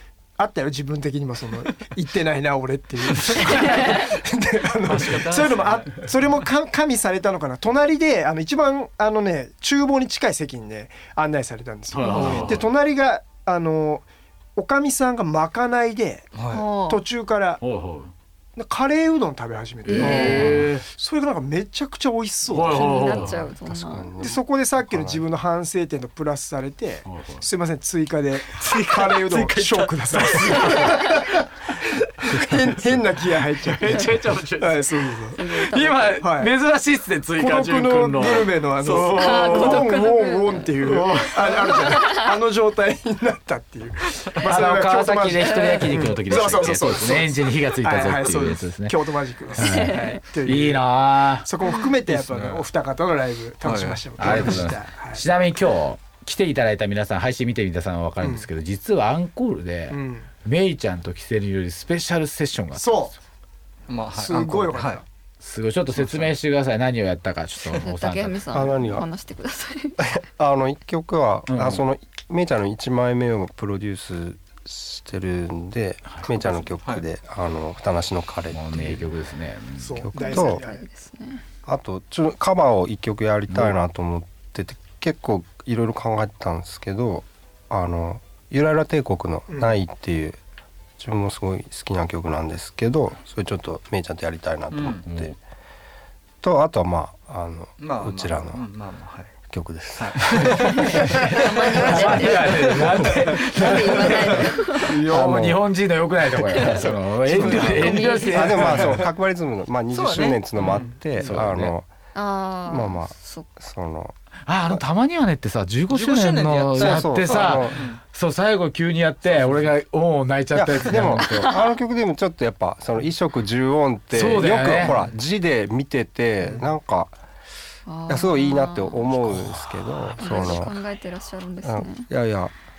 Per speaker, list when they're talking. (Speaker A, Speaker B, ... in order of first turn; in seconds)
Speaker A: 0.4-17.6, 18.6-23.2, 24.2-31.4, 32.0-35.4, 36.2-36.5, 37.4-50.8, 51.4-55.2, 58.2-58.5, 59.9-60.3, 62.8-63.1, 64.2-65.0, 79.8-80.8, 89.5-89.7, 108.3-108.8
Speaker B: 3.1-3.6, 4.8-6.1, 12.1-12.6, 16.3-16.7, 28.5-30.7, 52.1-52.6, 53.6-54.6, 63.9-65.0, 66.0-66.3, 94.7-95.0, 97.8-99.3, 100.0-103.9, 107.3-108.1, 108.7-108.9, 109.9-111.5, 115.9-118.0, 130.3-130.6
Speaker C: 11.9-12.7, 17.6-18.1, 19.8-20.8, 22.5-23.5, 27.1-27.4, 30.5-30.8, 33.8-35.0, 35.5-39.9, 40.8-41.8, 44.4-49.0, 49.6-51.5, 54.2-63.0, 65.4-68.6, 71.5-71.8, 78.5-80.0, 95.1-95.3, 101.7-109.0, 111.2-111.7, 114.5-121.3, 124.1-125.0, 129.3-129.9
Speaker D: 12.0-12.5, 16.5-17.0, 19.9-20.7, 22.5-24.1, 30.7-31.0, 35.3-36.2, 39.0-42.3, 45.5-45.8, 49.6-50.2, 67.8-70.1, 80.1-81.4, 101.3-105.0, 106.4-106.8, 107.4-108.7, 112.1-113.5, 127.9-129.0, 130.2-132.1
Speaker E: 23.2-25.2, 68.5-69.1, 70.0-79.1, 80.0-80.6, 81.7-90.4, 91.0-95.3, 96.4-98.6, 99.4-101.2, 105.0-105.6, 107.4-111.8, 112.7-114.1, 116.8-117.8, 120.5-127.2, 128.1-130.8, 131.6-132.5